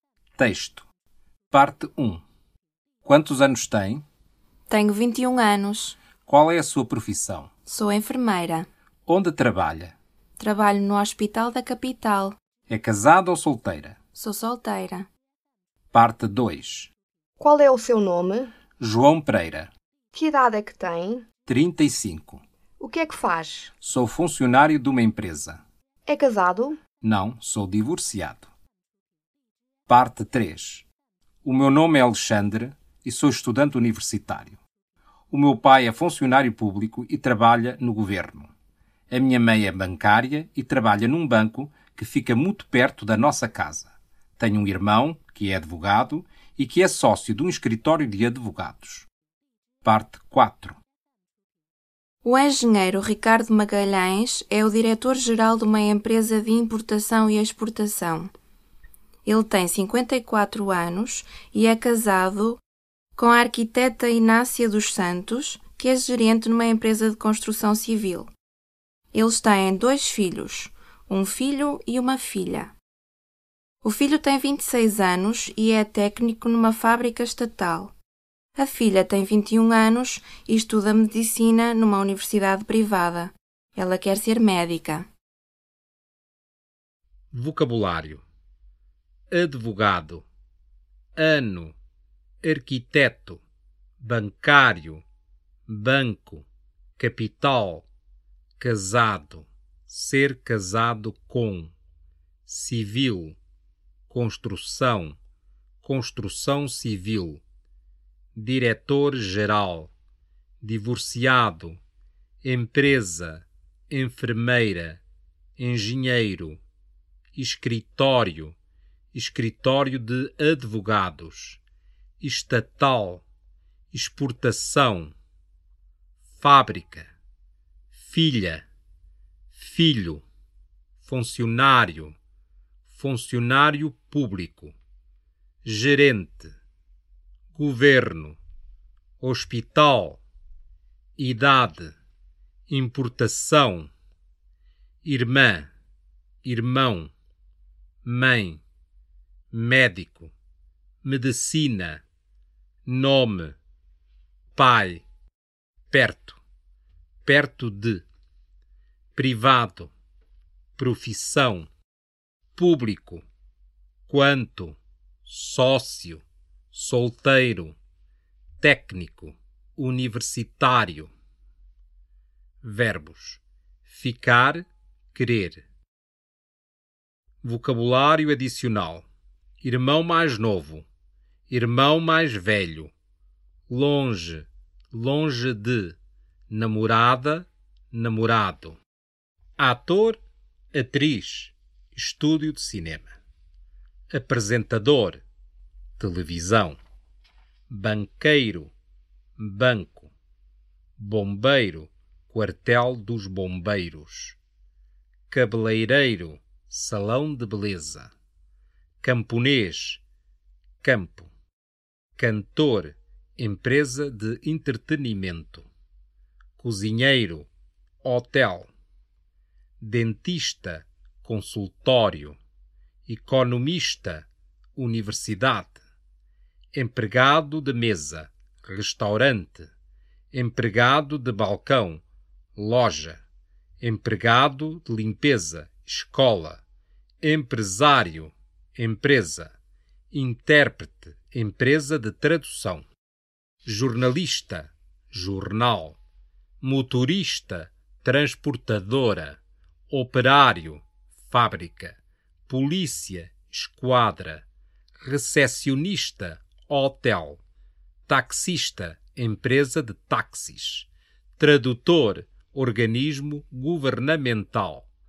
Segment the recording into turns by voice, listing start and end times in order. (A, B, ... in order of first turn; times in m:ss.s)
0:00.4-0:00.9 A
0:01.5-0:02.2 A
0:03.0-0:04.0 A
0:04.7-0:06.0 B
0:06.2-0:07.5 A
0:07.6-0:08.7 B
0:09.0-0:09.9 A
0:10.4-0:12.4 B
0:12.7-0:14.0 A
0:14.2-0:15.1 B
0:15.9-0:16.9 A
0:17.4-0:18.5 C
0:18.8-0:19.7 A
0:20.1-0:21.2 C
0:21.4-0:22.4 A
0:22.8-0:23.7 C
0:23.8-0:25.6 A
0:26.1-0:26.8 C
0:27.0-0:28.5 A
0:29.9-0:30.8 A
0:31.4-0:34.6 A
0:35.3-0:38.5 A
0:39.1-0:49.1 A
0:49.8-0:50.8 A
0:52.2-0:58.3 B
0:59.2-1:02.6 B
1:03.2-1:08.3 B
1:09.1-1:12.7 B
1:13.8-1:17.9 B
1:18.6-1:25.1 B
1:27.3-1:28.2 A
1:29.3-1:30.2 A
1:31.2-1:31.8 A
1:32.4-1:33.4 A
1:34.0-1:35.0 A
1:35.7-1:36.4 A
1:37.0-1:37.8 A
1:38.6-1:41.7 A
1:42.4-1:43.4 A
1:44.1-1:45.2 A
1:45.8-1:47.4 A
1:48.3-1:49.9 A
1:50.6-1:51.8 A
1:52.4-1:55.0 A
1:55.6-1:56.6 A
1:57.3-1:58.6 A
1:59.1-2:01.6 A
2:02.2-2:03.2 A
2:03.9-2:05.1 A
2:06.4-2:07.1 A
2:07.9-2:08.6 A
2:09.5-2:10.2 A
2:11.0-2:12.2 A
2:12.9-2:14.7 A
2:15.6-2:16.5 A
2:17.5-2:18.4 A
2:19.2-2:20.2 A
2:21.2-2:21.9 A
2:22.7-2:23.9 A
2:25.0-2:25.7 A
2:26.4-2:27.1 A
2:28.0-2:28.6 A
2:29.5-2:30.3 A
2:31.0-2:32.0 A
2:32.8-2:33.6 A
2:34.5-2:35.0 A
2:35.9-2:36.4 A
2:37.2-2:38.0 A
2:39.1-2:39.9 A
2:40.8-2:41.7 A
2:42.5-2:43.2 A
2:44.1-2:47.8 A
2:48.6-2:51.1 A
2:52.6-2:55.6 A
2:57.4-2:59.0 A
2:59.6-3:00.8 A
3:01.5-3:02.9 A
3:03.7-3:06.0 A
3:06.5-3:08.8 A
3:09.6-3:10.2 A
3:10.7-3:13.1 A
3:14.1-3:15.2 A
3:16.0-3:16.8 A
3:17.7-3:18.7 A
3:19.4-3:20.1 A
3:21.0-3:24.4 A
3:25.3-3:28.1 A
3:29.0-3:30.0 A
3:30.8-3:31.3 A
3:32.2-3:35.7 A
3:36.6-3:37.5 A
3:38.0-3:38.7 A
3:39.8-3:42.4 A
3:43.0-3:45.8 A
3:46.7-3:49.7 A
3:50.3-3:52.0 A
3:52.6-3:53.2 A
3:53.8-3:56.6 A
3:57.2-3:59.5 A
4:00.1-4:02.8 A
4:03.6-4:06.0 A
4:06.6-4:14.4 A
4:15.0-4:17.4 A
4:18.1-4:24.9 A